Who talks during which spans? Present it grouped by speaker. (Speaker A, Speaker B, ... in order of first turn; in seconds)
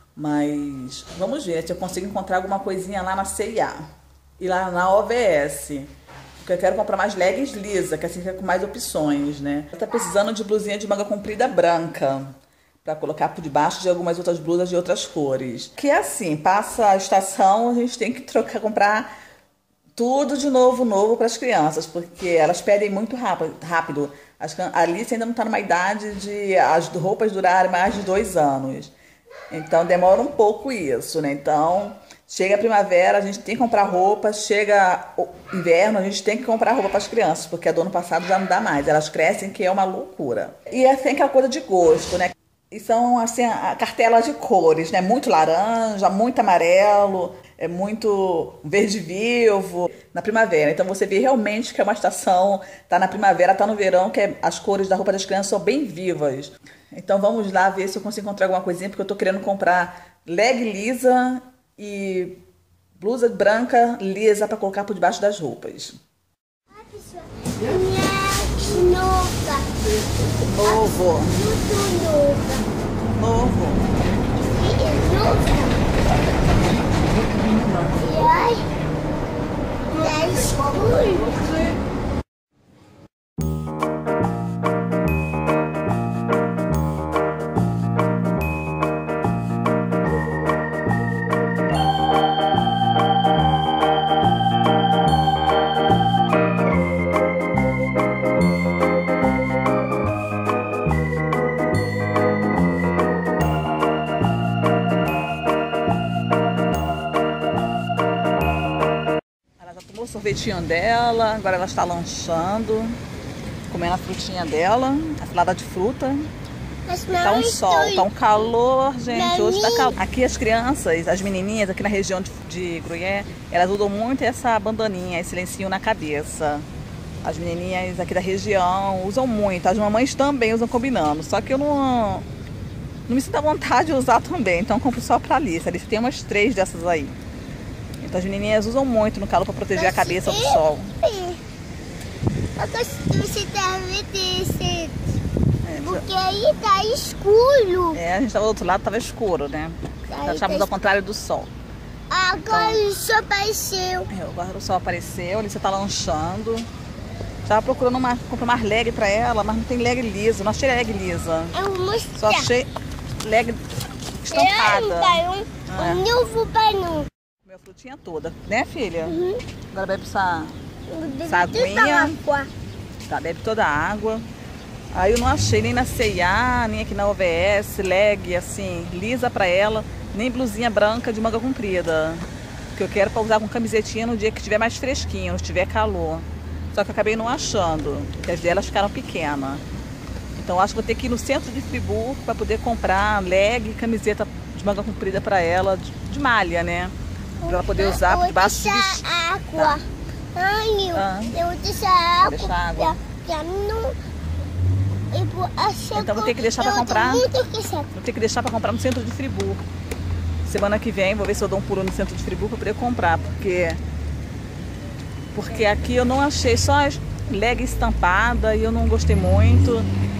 Speaker A: 0.1-3.8, 4.4-19.1, 19.9-28.9, 29.5-62.4, 63.0-66.0, 70.3-71.4, 73.1-73.8, 109.6-113.0, 113.7-116.3, 117.2-126.7, 127.2-132.2, 133.1-137.2, 138.0-140.9, 145.6-146.0, 147.9-151.5, 152.5-152.8, 154.1-156.7, 157.4-161.6, 162.1-162.7, 163.2-163.6, 164.2-166.0, 167.4-169.2, 169.7-170.6, 171.2-172.1, 173.1-174.2, 174.9-189.6, 190.3-199.0, 200.9-201.4, 202.2-203.0, 205.9-207.2, 207.9-209.6, 210.4-213.8, 215.3-219.9
Speaker B: 66.7-69.7, 70.6-72.6, 74.5-75.8, 78.0-78.6, 79.9-81.5, 116.9-118.1, 119.1-119.9, 139.8-141.4, 142.6-145.1, 145.7-148.0, 150.1-150.8, 152.1-154.1, 161.5-162.5, 164.3-167.1, 169.0-169.4, 170.9-172.5, 197.4-199.8, 200.3-203.9, 205.1-207.9